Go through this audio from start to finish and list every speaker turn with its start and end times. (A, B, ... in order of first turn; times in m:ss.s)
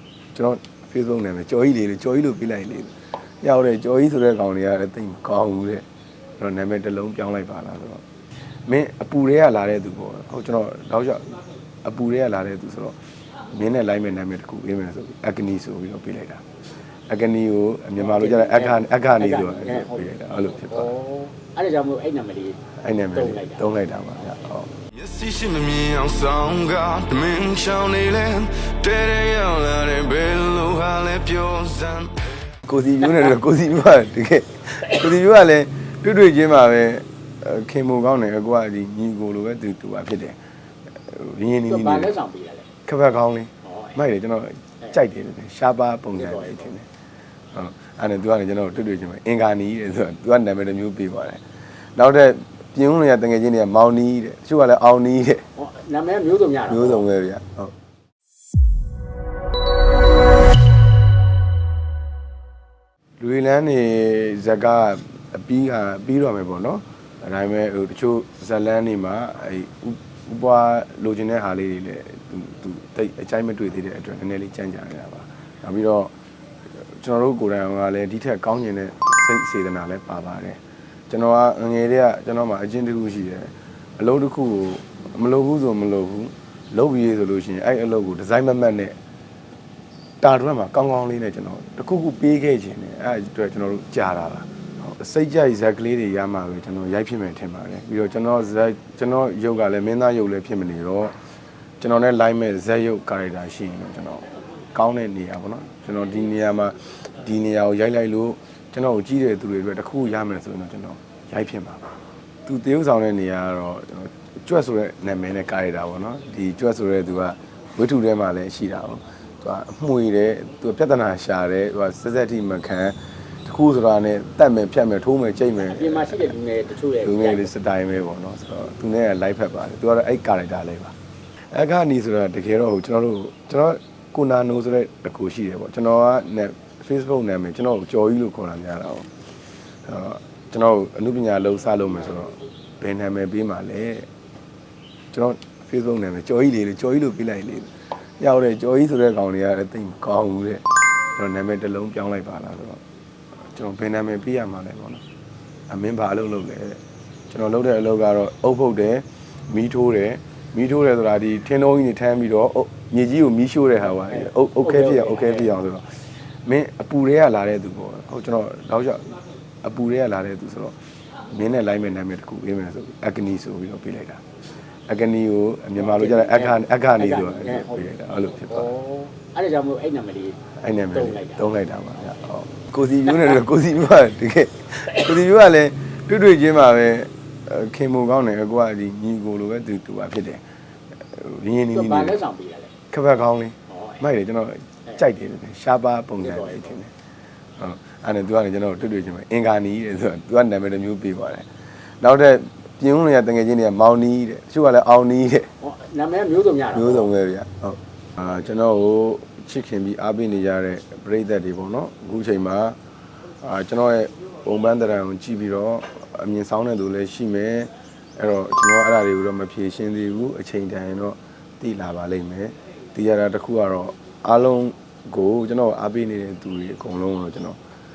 0:00.3-0:05.9 A
0:06.4-0:08.0 A
0:08.7-0:13.0 A
0:13.5-0:16.4 A
0:17.1-0:20.9 A
0:18.0-0:20.1 B
0:20.6-0:22.6 B
0:22.8-0:24.7 A
0:23.1-0:23.7 B
0:24.9-0:32.3 C
0:32.6-0:40.4 A
0:41.0-0:42.2 A
0:41.7-0:42.7 B
0:42.8-0:46.9 A
0:43.6-0:44.0 B
0:46.1-0:46.7 B
0:47.5-0:51.4 A
0:52.0-0:55.5 A
0:55.6-0:57.1 B
0:56.7-0:57.7 A
1:03.2-1:16.1 A
1:16.8-1:29.0 A
1:30.2-1:41.1 A
1:41.8-1:51.8 A
1:52.5-2:06.4 A
2:05.6-2:07.5 B
2:07.0-2:19.1 A
2:19.8-2:24.1 A
2:25.1-2:32.8 A
2:33.4-2:35.0 A
2:35.7-2:50.8 A
2:43.9-2:45.5 B
2:51.3-2:54.2 A
2:54.9-2:58.7 A
2:55.8-2:57.8 B
2:58.5-3:01.4 B
3:00.6-3:10.4 A
3:11.0-3:12.2 A
3:11.7-3:12.7 B
3:12.9-3:16.9 A
3:13.7-3:14.0 B
3:16.2-3:16.8 B
3:17.6-3:21.5 A
3:22.0-3:25.5 A
3:25.6-3:27.1 B
3:26.7-3:32.8 A
3:33.4-3:47.6 A